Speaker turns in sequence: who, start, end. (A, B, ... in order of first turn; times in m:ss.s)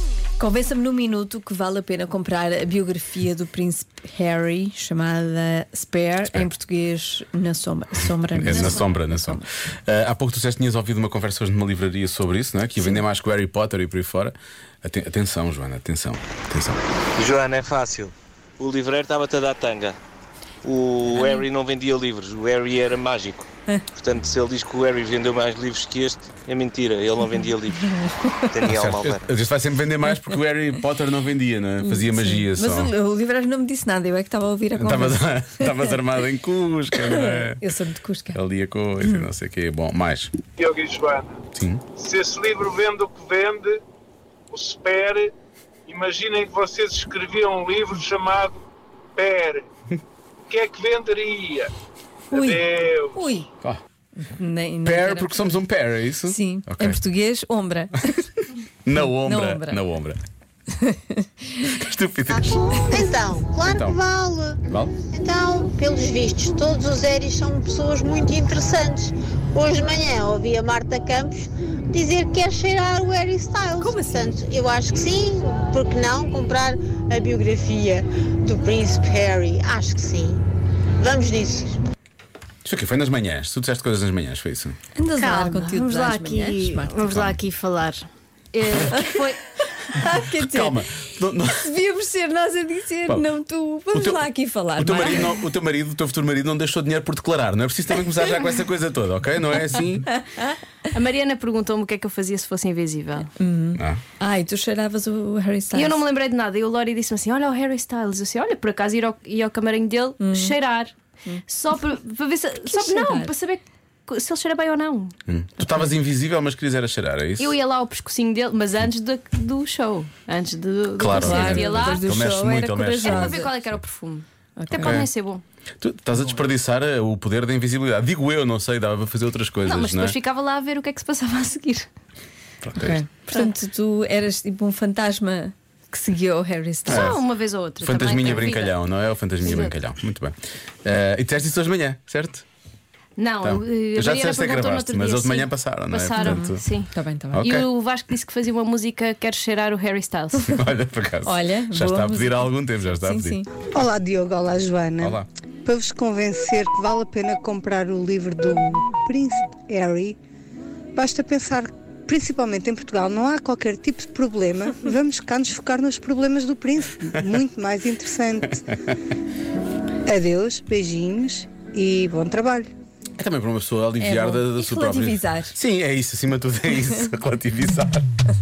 0:00.4-0:09.5 A
0:08.3-0:16.8 B
0:17.2-0:19.9 C
0:20.6-0:23.4 C
0:21.1-0:21.4 A
0:24.0-0:27.7 C
0:27.2-0:28.6 A
0:28.6-0:29.2 C
0:28.6-0:32.9 B
0:31.8-0:36.0 A
0:34.8-0:37.6 B
0:37.0-0:38.4 A
0:38.3-0:40.3 B
0:39.0-0:39.3 A
0:40.6-0:41.4 D
0:41.5-0:41.8 B
0:42.0-0:43.8 D
0:44.5-0:45.3 D
0:45.9-0:48.6 D
0:49.2-0:49.6 D
0:50.5-0:51.7 D
0:52.3-0:53.5 A
0:52.3-0:53.3 D
0:54.2-0:55.6 A
0:54.8-0:57.0 B
0:56.3-0:58.4 A
0:58.8-1:00.2 B
0:59.0-0:59.8 A
1:00.8-1:01.3 A
1:01.6-1:02.7 B
1:02.3-1:20.4 E
1:03.6-1:04.0 B
1:04.7-1:05.0 B
1:13.8-1:14.4 A
1:21.0-1:21.8 E
1:22.6-1:24.8 B
1:24.9-1:27.1 A
1:25.2-1:29.4 F
1:27.1-1:27.4 B
1:29.9-1:30.8 A
1:30.0-1:31.7 B
1:31.6-1:35.4 A
1:33.9-1:40.1 B
1:40.9-1:43.3 F
1:43.4-1:46.0 A
1:45.7-1:50.9 F
1:50.2-1:50.5 A
1:51.5-1:55.1 F
1:52.7-1:53.3 A
1:55.3-1:57.5 B
1:57.4-2:05.4 F
2:01.0-2:03.4 B
2:01.1-2:03.5 A
2:04.6-2:05.0 A
2:04.8-2:05.1 B
2:05.8-2:10.2 B
2:09.6-2:11.9 F
2:12.6-2:13.0 B
2:12.8-2:17.2 A
2:16.9-2:18.8 F
2:16.9-2:17.2 B
2:17.8-2:20.3 B
2:19.4-2:19.7 F
2:20.8-2:22.4 B
2:23.2-2:30.5 F
2:23.4-2:26.6 B
2:26.2-2:27.4 A
2:27.3-2:27.7 B
2:30.4-2:33.4 B
2:31.2-2:33.5 A
2:33.7-2:40.2 G
2:35.0-2:35.2 B
2:40.9-2:48.6 G
2:48.6-2:49.0 B
2:50.1-2:52.7 G
2:53.2-2:58.0 B
2:54.0-2:55.5 A